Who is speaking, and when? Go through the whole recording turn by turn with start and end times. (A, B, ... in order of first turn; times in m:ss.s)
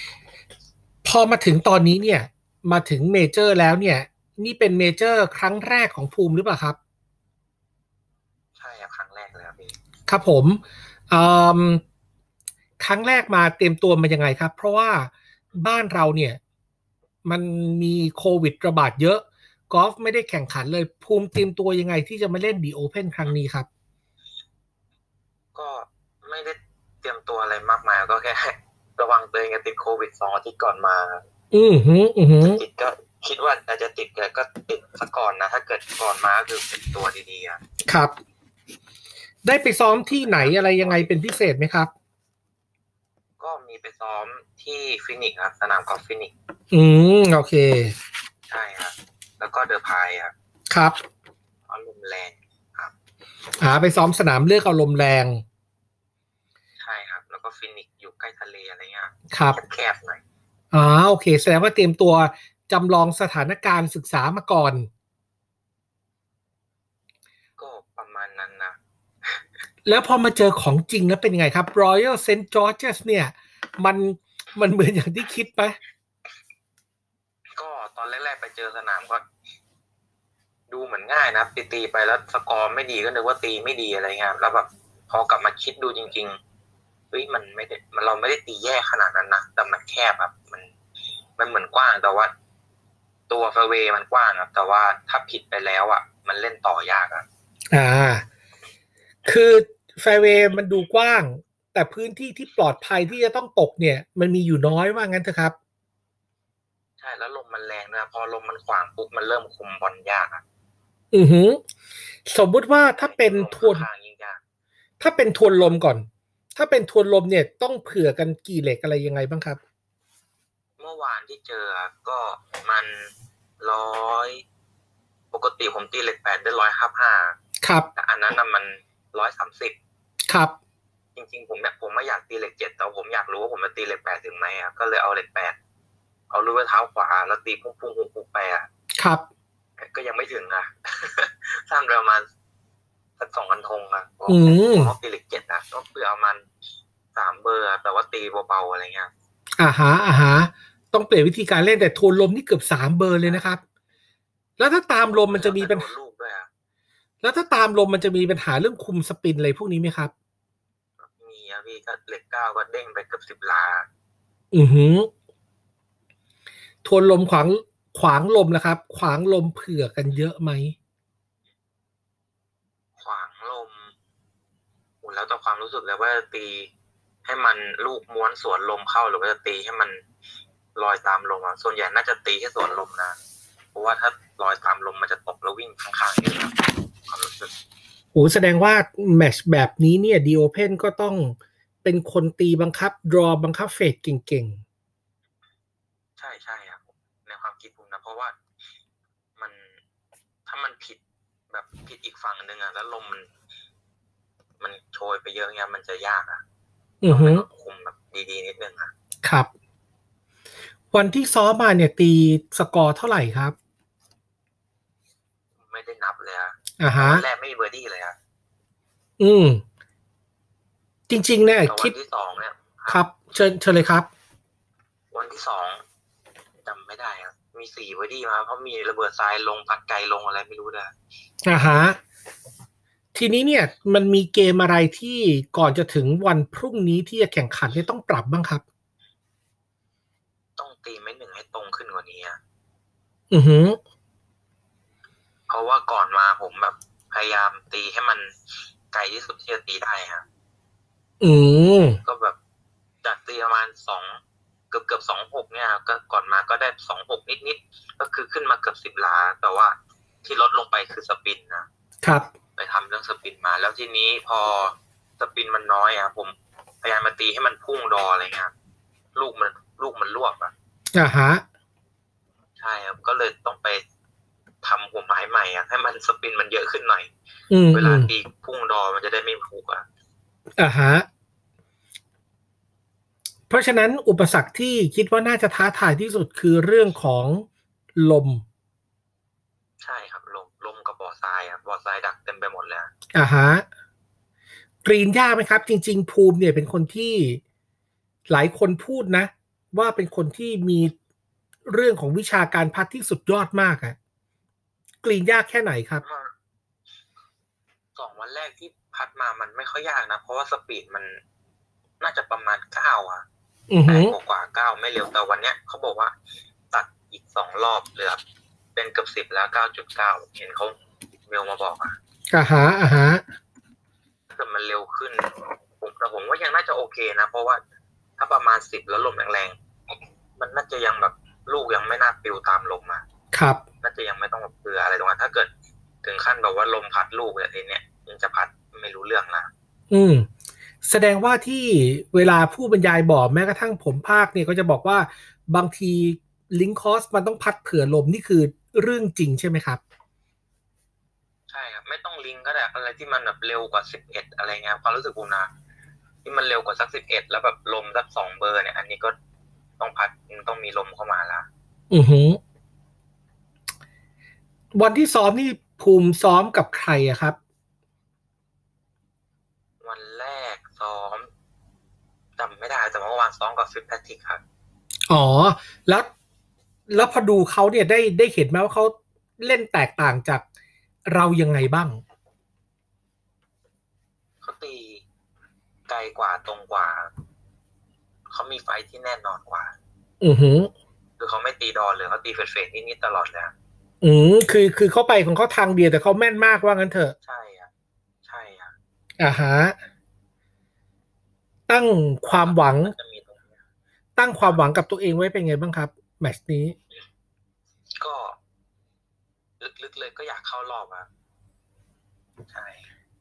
0:01.0-0:06.8 A
0:08.6-0:09.8 B
0:10.1-0:11.8 A
0:12.8-0:16.4 A
0:17.2-0:23.7 A
0:25.5-0:31.2 B
0:31.5-0:32.6 A
0:32.4-0:37.6 B
0:37.9-0:38.1 A
0:39.4-0:41.9 A
0:40.1-0:41.1 B
0:43.4-0:46.3 B
0:46.7-0:47.9 A
0:48.5-0:50.3 B
0:50.7-0:51.0 A
0:51.7-0:52.9 B
0:53.6-0:55.4 A
0:56.8-1:00.2 B
0:59.3-0:59.6 A
1:00.7-1:04.9 A
1:07.6-1:08.8 B
1:09.9-1:15.8 A
1:17.6-1:19.2 B
1:20.7-1:26.4 B
1:27.1-1:30.7 B
1:31.4-1:32.3 B
1:33.3-1:37.3 B
1:37.7-1:38.2 A
1:39.2-1:45.6 A
1:47.0-1:50.4 B
1:51.1-1:51.6 A
1:52.3-1:53.9 A
1:53.0-1:54.4 B
1:55.0-1:59.6 A
2:00.8-2:04.4 B
2:05.3-2:07.4 B
2:07.6-2:07.9 A
2:08.0-2:09.8 B
2:10.3-2:10.6 A
2:11.2-2:15.6 B
2:16.3-2:18.7 B
2:19.0-2:19.2 A
2:19.8-2:22.3 B
2:23.2-2:26.5 B
2:24.3-2:24.9 A
2:27.1-2:29.1 B
2:29.6-2:33.6 A
2:33.2-2:33.5 B
2:34.6-2:35.9 A
2:35.1-2:36.5 B
2:37.2-2:40.1 A
2:41.0-2:43.9 B
2:44.5-2:45.1 A
2:46.8-2:50.7 A
2:53.0-2:53.9 B
2:55.0-2:56.7 B
2:57.2-3:00.0 B
3:00.8-3:03.2 B
3:03.7-3:06.6 B
3:07.1-3:07.5 B
3:08.2-3:14.6 A
3:16.2-3:18.4 B
3:19.4-3:19.8 B
3:20.5-3:23.3 B
3:24.6-3:26.4 B
3:27.0-3:27.4 A
3:27.1-3:28.9 B
3:29.2-3:29.5 A
3:30.9-3:33.6 A
3:35.6-3:38.2 B
3:36.8-3:37.2 A
3:39.2-3:39.6 A
3:41.1-3:41.9 A
3:41.7-3:43.0 B
3:42.9-3:44.1 A
3:45.1-3:45.8 B
3:46.6-3:50.9 B
3:51.4-3:52.0 A
3:53.2-3:58.6 A
4:00.6-4:02.4 B
4:03.3-4:03.8 A
4:05.5-4:08.3 B
4:08.9-4:10.2 B
4:11.2-4:12.0 A
4:12.0-4:12.4 B
4:13.0-4:14.2 B
4:14.7-4:21.7 B
4:22.0-4:22.3 A
4:22.6-4:28.5 B
4:29.2-4:30.5 B
4:31.0-4:31.4 A
4:32.6-4:33.8 B
4:34.6-4:37.1 B
4:37.5-4:38.1 A
4:37.7-4:39.8 B
4:40.6-4:41.1 A
4:43.5-4:47.5 A
4:48.0-4:48.4 A
4:49.8-4:52.9 B
4:53.1-4:53.6 A
4:54.8-4:57.4 A
4:58.3-5:00.9 A
5:01.7-5:04.0 A
5:05.0-5:06.0 A
5:06.0-5:06.3 B
5:08.0-5:11.2 B
5:12.0-5:13.2 B
5:13.7-5:14.2 A
5:13.9-5:16.1 B
5:16.7-5:18.2 B
5:18.8-5:22.0 B
5:22.3-5:23.2 A
5:24.3-5:27.6 B
5:28.2-5:29.6 B
5:30.4-5:33.0 B
5:33.3-5:33.6 A
5:33.8-5:35.5 B
5:36.0-5:39.5 B
5:39.9-5:40.3 A
5:40.8-5:49.8 A
5:51.5-5:55.5 B
5:56.2-5:59.2 B
5:59.8-6:01.5 B
6:01.9-6:02.4 A
6:04.8-6:07.4 A
6:09.8-6:11.3 B
6:12.4-6:14.4 B
6:15.1-6:16.1 A
6:16.9-6:20.4 A
6:21.1-6:22.0 A
6:24.4-6:25.0 B
6:25.9-6:27.1 B
6:28.3-6:29.8 B
6:30.2-6:30.7 A
6:31.2-6:33.5 B
6:34.0-6:37.2 A
6:37.2-6:37.7 B
6:38.2-6:38.7 B
6:39.2-6:39.8 A
6:41.7-6:42.9 A
6:42.3-6:43.6 B
6:44.2-6:46.8 A
6:48.0-6:48.4 B
6:49.6-6:51.1 B
6:52.5-6:52.8 B